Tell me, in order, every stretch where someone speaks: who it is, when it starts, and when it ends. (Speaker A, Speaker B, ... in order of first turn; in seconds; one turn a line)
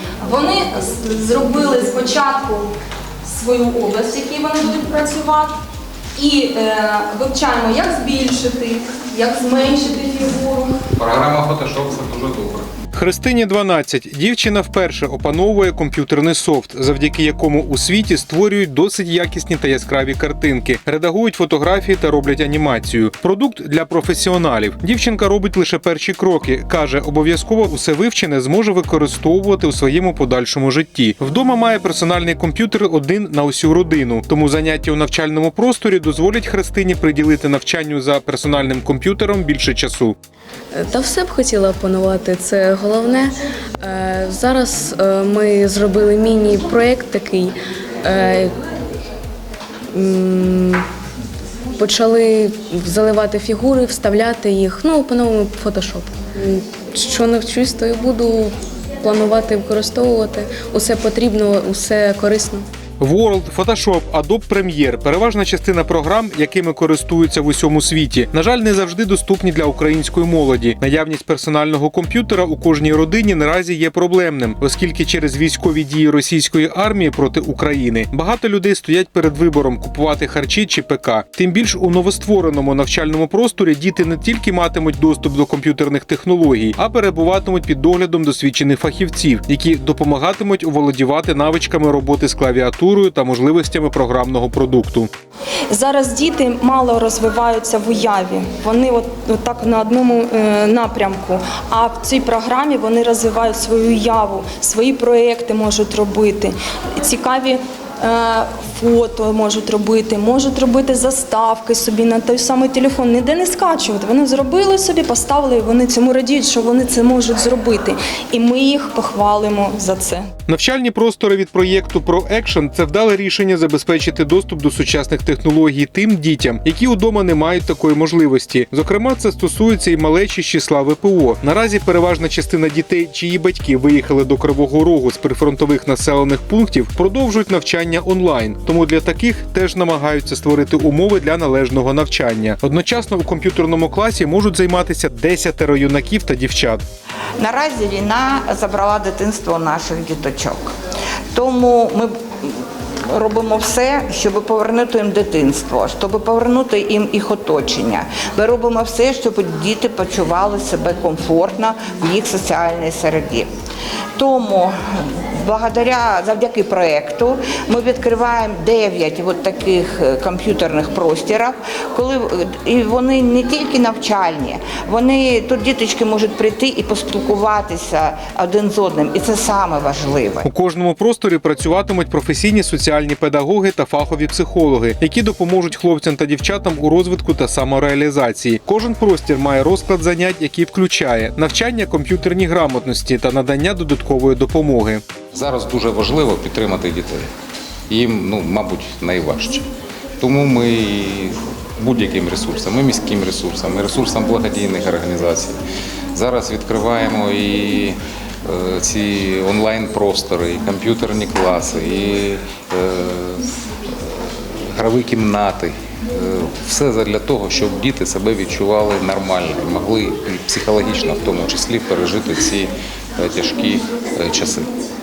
Speaker A: 0.2-2.7
Speaker A: 3.2-5.5
Speaker A: 6.2-10.8
Speaker B: 11.0-12.7
Speaker C: 12.9-40.1
Speaker D: 40.7-48.5
Speaker D: 49.9-50.9
Speaker D: 51.8-62.6
Speaker C: 63.0-95.1
Speaker A: 95.7-120.3
Speaker C: 120.5-146.8
Speaker E: 147.4-150.7
Speaker E: 151.3-163.5
Speaker E: 164.2-180.5
Speaker C: 180.4-195.0
Speaker B: 195.3-197.3
Speaker B: 197.9-199.7
Speaker B: 200.2-205.6
Speaker B: 206.1-224.7